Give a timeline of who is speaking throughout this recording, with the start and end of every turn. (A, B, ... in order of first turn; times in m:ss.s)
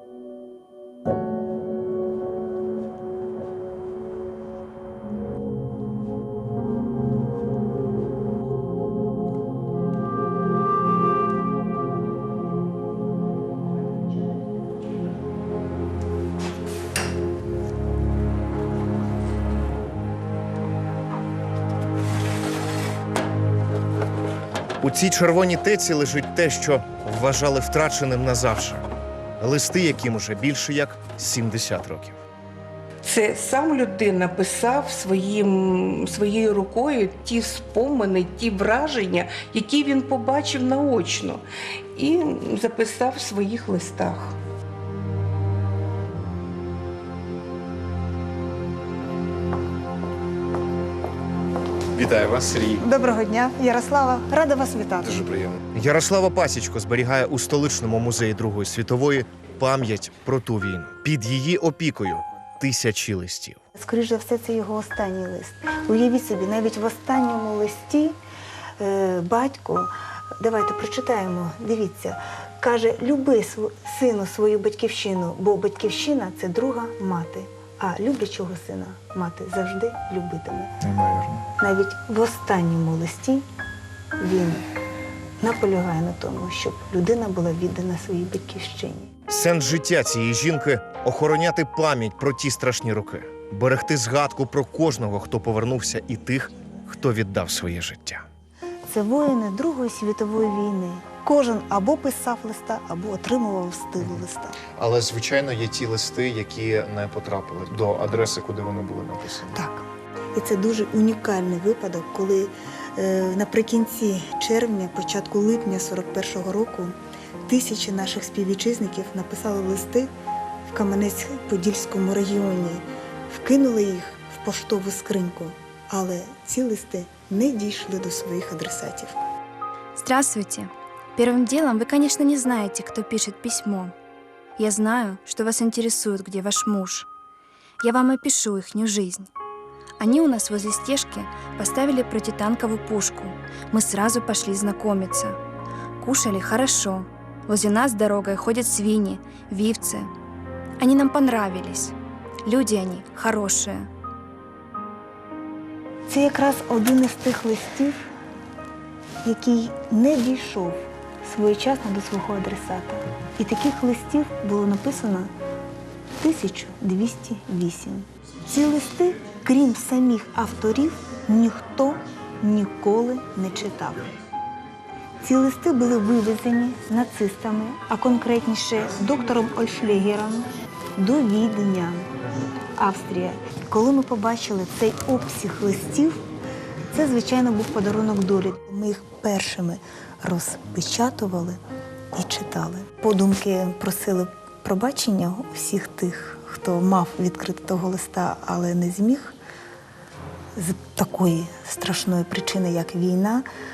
0:24.8-0:28.8 A
0:29.4-0:32.1 A
0:33.0-0:44.4 B
0:52.0-0:52.8 C
0:52.8-0:55.3 D
0:55.0-0:55.6 C
0:55.7-1:03.6 A
1:03.7-1:08.2 D
1:08.8-1:20.7 D
1:20.8-1:21.4 C
1:21.6-1:23.4 D
1:24.2-1:24.6 D
1:25.4-1:29.1 D
1:29.3-1:38.2 A
1:38.9-1:44.6 D
1:44.8-1:49.6 C
1:49.5-1:56.9 D
1:57.4-2:00.1 D
2:00.7-2:09.2 D
2:10.0-2:13.9 E
2:14.6-2:17.1 E
2:17.8-2:19.3 E
2:20.0-2:25.4 E
2:26.0-2:30.1 E
2:30.8-2:31.9 E
2:32.4-2:33.9 E
2:36.1-2:38.0 D
2:39.2-2:45.3 D
2:46.2-2:54.1 D
2:55.2-3:02.1 D
3:02.8-3:06.2 D
3:06.9-3:11.6 D
3:12.1-3:19.3 D
3:20.6-3:23.4 D